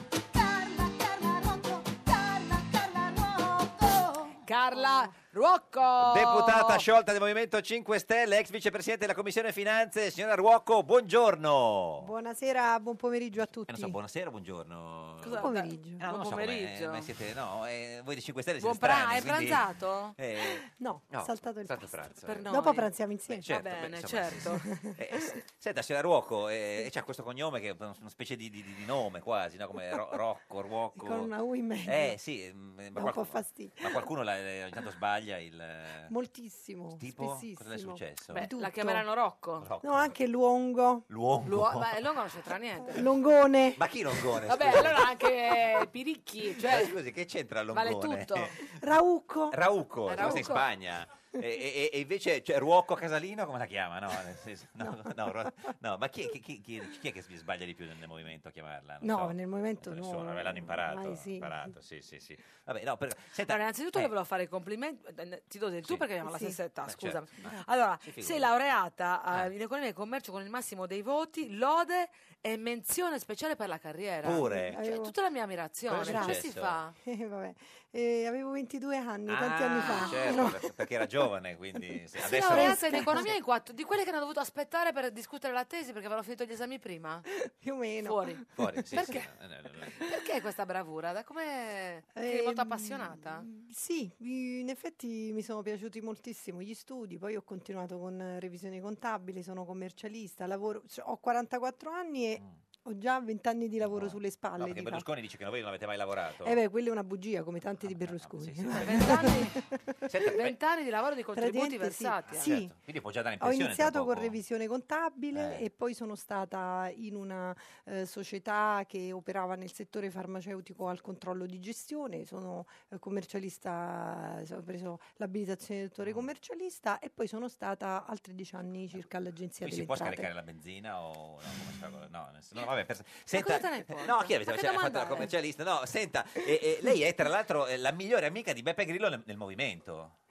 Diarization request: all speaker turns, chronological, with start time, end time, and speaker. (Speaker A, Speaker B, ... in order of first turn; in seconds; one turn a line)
Speaker A: 0.3-4.3
Speaker B: 4.4-6.8
Speaker C: 6.0-12.1
Speaker D: 12.0-13.9
Speaker C: 13.7-22.5
Speaker B: 15.2-17.1
Speaker D: 15.3-16.0
Speaker B: 18.6-20.1
Speaker D: 20.4-23.5
Speaker B: 22.2-22.9
Speaker C: 23.3-31.3
Speaker B: 23.4-24.6
Speaker D: 24.6-25.3
Speaker D: 29.9-30.2
Speaker D: 30.9-32.2
Speaker C: 31.8-36.1
Speaker D: 32.9-34.0
Speaker D: 36.1-39.0
Speaker C: 37.0-38.4
Speaker B: 38.3-39.6
Speaker C: 39.6-40.1
Speaker D: 39.8-41.1
Speaker C: 41.1-42.0
Speaker B: 41.4-43.0
Speaker D: 42.9-43.8
Speaker C: 43.8-45.1
Speaker B: 44.5-46.9
Speaker C: 46.6-48.8
Speaker B: 47.7-48.5
Speaker D: 48.8-49.6
Speaker C: 49.5-64.1
Speaker B: 50.1-50.6
Speaker D: 50.1-50.5
Speaker D: 54.8-55.5
Speaker D: 59.0-61.7
Speaker B: 63.5-76.9
Speaker D: 66.2-66.5
Speaker C: 66.8-68.5
Speaker C: 74.2-74.8
Speaker D: 74.7-75.1
Speaker C: 75.9-76.8
Speaker D: 75.9-76.4
Speaker D: 77.0-80.7
Speaker C: 79.3-83.3
Speaker B: 79.8-80.2
Speaker D: 82.2-83.3
Speaker B: 82.2-87.2
Speaker D: 87.3-89.1
Speaker B: 88.0-88.4
Speaker C: 88.6-90.0
Speaker B: 88.9-89.2
Speaker B: 90.0-93.5
Speaker D: 92.1-105.0
Speaker C: 103.8-106.6
Speaker D: 106.4-110.3
Speaker C: 107.8-109.4
Speaker B: 108.8-109.5
Speaker C: 110.1-110.5
Speaker B: 110.2-112.5
Speaker D: 111.3-112.7
Speaker C: 112.3-114.3
Speaker D: 113.4-130.3
Speaker C: 115.3-115.6
Speaker C: 126.0-126.3
Speaker C: 129.6-140.1
Speaker B: 133.3-135.3